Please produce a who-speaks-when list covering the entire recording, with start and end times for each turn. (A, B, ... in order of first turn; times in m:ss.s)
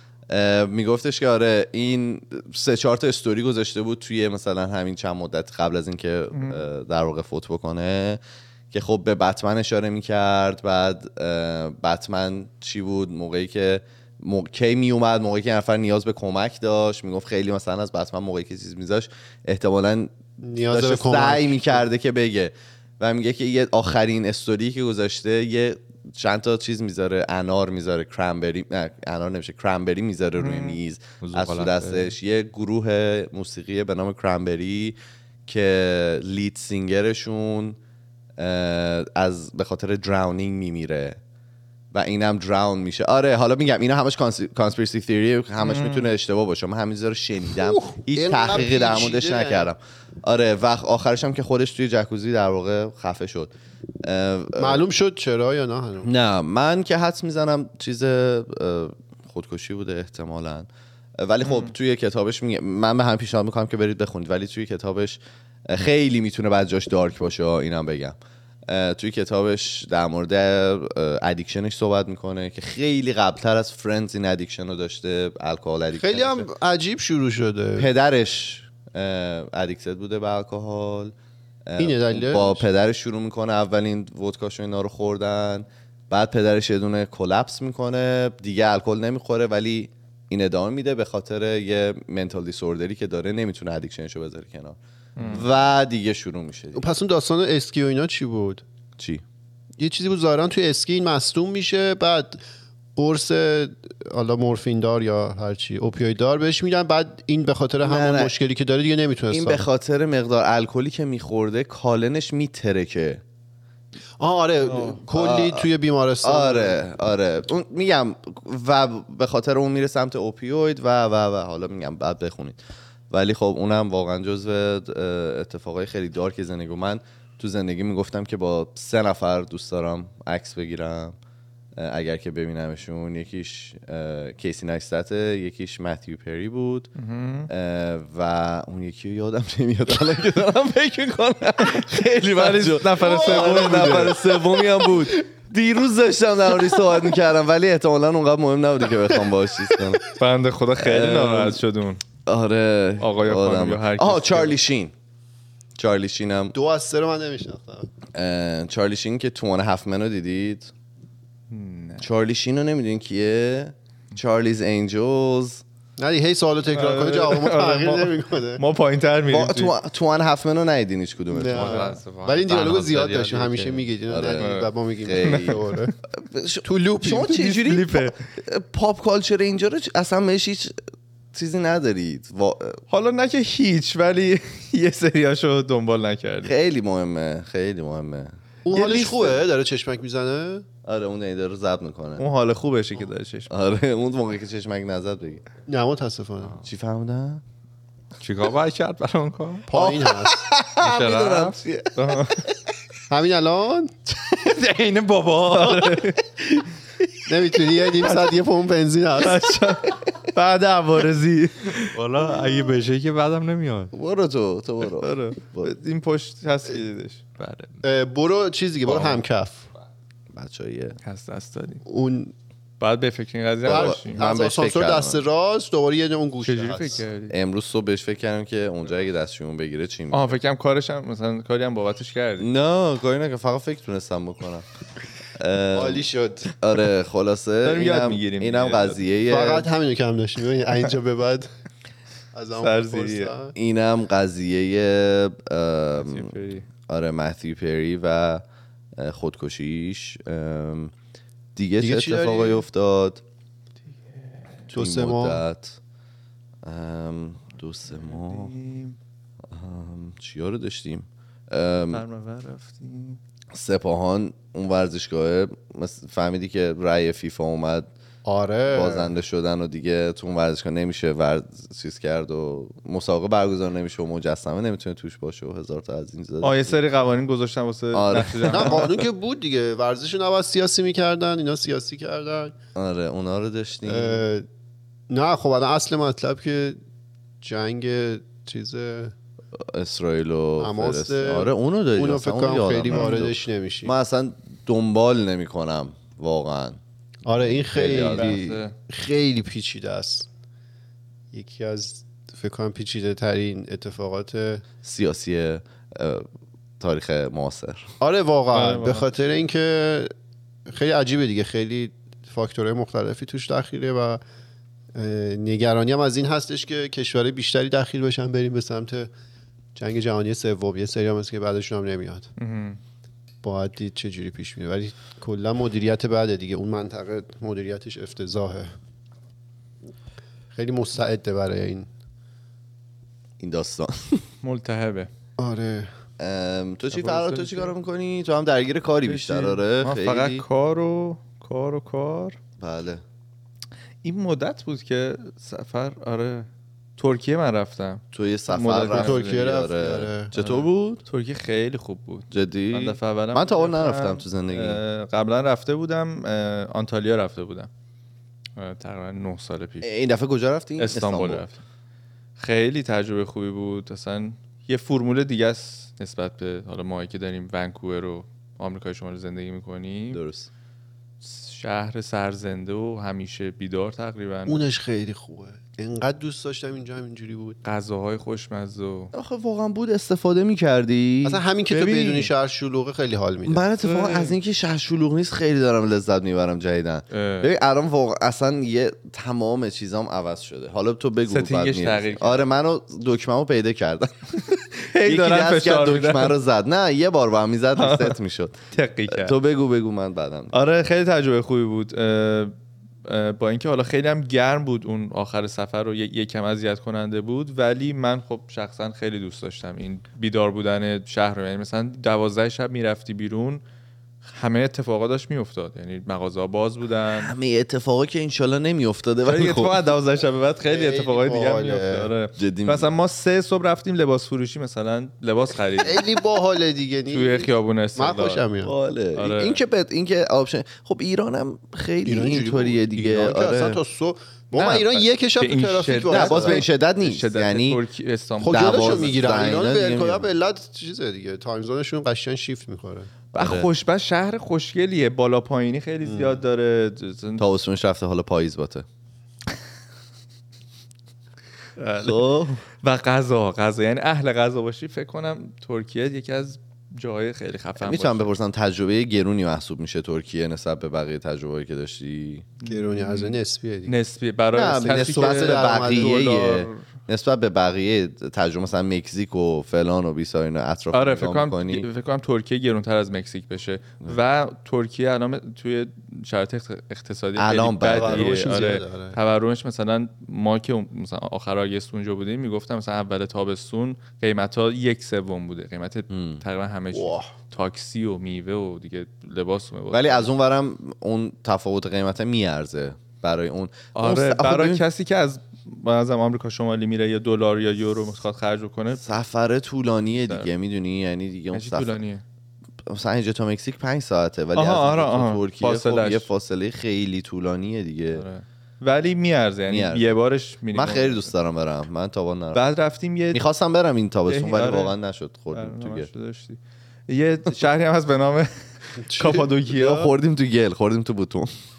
0:00.3-0:08.2 A
0:06.3-0:06.6 B
0:08.7-0:20.1 A
0:20.4-0:21.8 C
0:20.7-0:35.0 A
0:30.4-0:30.8 B
0:31.2-0:32.1 D
0:35.5-0:37.8 A
0:38.4-0:41.2 A
0:41.9-0:53.5 A
0:45.6-0:46.1 B
0:47.7-0:49.7 C
0:54.0-0:54.8 A
0:54.6-0:56.1 C
0:56.0-1:00.7 A
1:01.2-1:08.2 A
1:01.4-1:01.7 B
1:08.7-1:16.5 A
1:16.0-1:17.9 C
1:17.8-1:21.1 A
1:21.7-1:36.8 A
1:21.8-1:22.6 C
1:35.2-1:35.4 B
1:36.7-1:38.6 C
1:39.0-1:39.2 A
1:39.8-1:42.4 C
1:43.0-1:49.6 C
1:47.8-1:48.3 A
1:49.3-1:53.2 A
1:54.2-1:56.8 C
1:54.7-1:55.0 B
1:55.1-1:55.7 A
1:56.2-2:02.6 A
2:03.1-2:11.2 A
2:11.8-2:16.9 A
2:17.0-2:17.5 B
2:17.5-2:30.0 A
2:22.3-2:24.2 B
2:23.2-2:24.0 C
2:30.1-2:32.0 B
2:30.8-2:31.6 A
2:32.2-2:34.9 A
2:33.0-2:34.6 B
2:35.8-2:36.6 A
2:36.5-2:37.9 C
2:38.2-2:40.7 A
2:41.5-2:42.1 B
2:42.0-2:45.6 A
2:46.0-2:48.6 C
2:46.7-2:49.7 B
2:49.3-2:51.8 A
2:51.3-2:55.9 C
2:51.5-2:53.9 D
2:54.1-2:55.6 A
2:54.4-2:55.9 B
2:56.1-3:00.8 A
2:56.6-2:57.4 C
2:57.2-2:58.2 B
3:01.3-3:02.8 A
3:02.9-3:06.5 B
3:06.4-3:09.4 A
3:08.7-3:10.6 C
3:10.8-3:12.2 A
3:12.2-3:13.5 B
3:13.5-3:15.4 A
3:15.7-3:16.6 C
3:16.6-3:17.4 A
3:18.2-3:19.7 D
3:19.7-3:20.4 C
3:19.7-3:22.5 A
3:20.8-3:21.6 D
3:22.0-3:22.4 B
3:23.1-3:23.9 C
3:24.1-3:26.2 D
3:25.5-3:26.2 B
3:27.3-3:29.5 C
3:29.2-3:31.9 B
3:31.9-3:33.9 D
3:33.9-3:35.8 A
3:34.9-3:37.2 B
3:37.4-3:37.8 D
3:37.8-3:39.7 C
3:38.9-3:39.2 A
3:40.3-3:41.0 A
3:41.0-3:41.8 B
3:41.9-3:42.3 C
3:42.8-3:44.2 B
3:43.6-3:45.2 A
3:43.7-3:47.0 C
3:46.4-3:47.4 B
3:47.3-3:50.4 A
3:50.1-3:52.5 B
3:52.4-3:54.6 A
3:55.4-3:56.0 A
3:55.7-3:56.5 C
3:56.6-3:59.7 A
3:57.6-3:59.0 B
3:59.3-4:01.5 C
4:02.3-4:03.6 C
4:02.6-4:03.3 B
4:03.6-4:06.3 A
4:06.0-4:06.7 B
4:06.9-4:08.4 A
4:09.0-4:10.9 A
4:11.6-4:13.2 A
4:11.8-4:12.6 C
4:14.7-4:15.8 A
4:14.7-4:15.4 C
4:16.6-4:18.5 A
4:18.1-4:19.0 B
4:19.5-4:22.0 A
4:21.9-4:23.2 B
4:23.5-4:27.9 A
4:28.2-4:29.1 C
4:28.7-4:36.8 A
4:36.4-4:38.9 B
4:37.9-4:38.9 A
4:38.5-4:42.6 C
4:42.8-4:44.2 A
4:43.8-4:44.5 C
4:45.1-4:46.8 C
4:47.4-4:49.1 C
4:49.6-4:56.8 A
4:50.6-4:53.9 C
4:52.9-4:53.2 B
4:57.3-5:00.3 C
4:57.7-4:58.7 B
4:57.7-4:58.4 A
5:01.3-5:04.6 C
5:04.8-5:06.3 A
5:06.8-5:07.9 A
5:08.0-5:10.1 C
5:08.5-5:09.1 B
5:10.7-5:14.2 C
5:14.9-5:19.1 C
5:19.8-5:22.3 C
5:22.4-5:22.8 B
5:23.4-5:28.7 C
5:30.5-5:31.9 C
5:33.4-5:34.2 A
5:34.4-5:35.1 B
5:35.4-5:35.9 C
5:36.2-5:40.4 A
5:36.9-5:37.7 B
5:39.1-5:42.4 B
5:42.6-5:43.0 A
5:44.0-5:49.5 B
5:48.1-5:51.0 A
5:48.9-5:50.3 C
5:50.3-5:57.7 B
5:52.3-5:54.8 A
5:58.6-5:59.9 B
5:59.8-6:01.4 A
6:00.8-6:01.6 B
6:02.4-6:10.2 B
6:10.1-6:10.5 A
6:11.2-6:14.6 B
6:14.5-6:17.6 C
6:17.6-6:19.1 B
6:19.1-6:21.4 A
6:21.2-6:23.6 C
6:21.7-6:22.3 B
6:23.5-6:38.6 A
6:23.8-6:24.4 B
6:27.1-6:27.5 B
6:31.3-6:32.5 B
6:34.9-6:36.4 B
6:37.8-6:38.2 B
6:38.7-6:39.4 B
6:39.1-6:40.5 A
6:40.5-6:42.5 B
6:43.0-6:53.6 B
6:54.3-6:57.3 B
6:57.1-6:59.8 A
6:59.2-7:06.0 B
7:00.7-7:02.1 C
7:02.4-7:02.9 A
7:05.8-7:08.7 C
7:07.1-7:08.4 B
7:08.6-7:13.8 A
7:09.2-7:09.6 B
7:12.1-7:16.7 C
7:14.6-7:19.2 B
7:16.1-7:17.8 A
7:18.4-7:23.1 C
7:18.4-7:20.3 A
7:23.3-7:23.7 A
7:23.4-7:27.4 B
7:26.0-7:26.4 C
7:27.4-7:28.8 A
7:31.8-7:32.3 B
7:32.0-7:32.6 A
7:32.8-7:38.3 B
7:37.8-7:42.4 A
7:42.6-7:46.8 B
7:42.7-7:44.0 C
7:44.5-7:51.9 A
7:45.0-7:46.2 C
7:50.9-8:10.3 B
7:57.4-7:58.5 A
7:57.9-7:59.2 C
8:06.1-8:06.4 A
8:06.9-8:07.3 C
8:09.9-8:14.8 A
8:14.0-8:19.0 B
8:19.0-8:22.0 A
8:20.2-8:20.5 B
8:21.5-8:22.2 B
8:22.8-8:28.2 A
8:24.6-8:26.3 B
8:28.1-8:31.3 B
8:29.7-8:30.2 A
8:30.7-8:32.6 A
8:32.6-8:33.4 B
8:33.3-8:36.1 A
8:34.3-8:35.0 B
8:35.5-8:38.5 B
8:39.1-8:40.1 B
8:39.1-8:39.4 C
8:39.2-8:41.5 A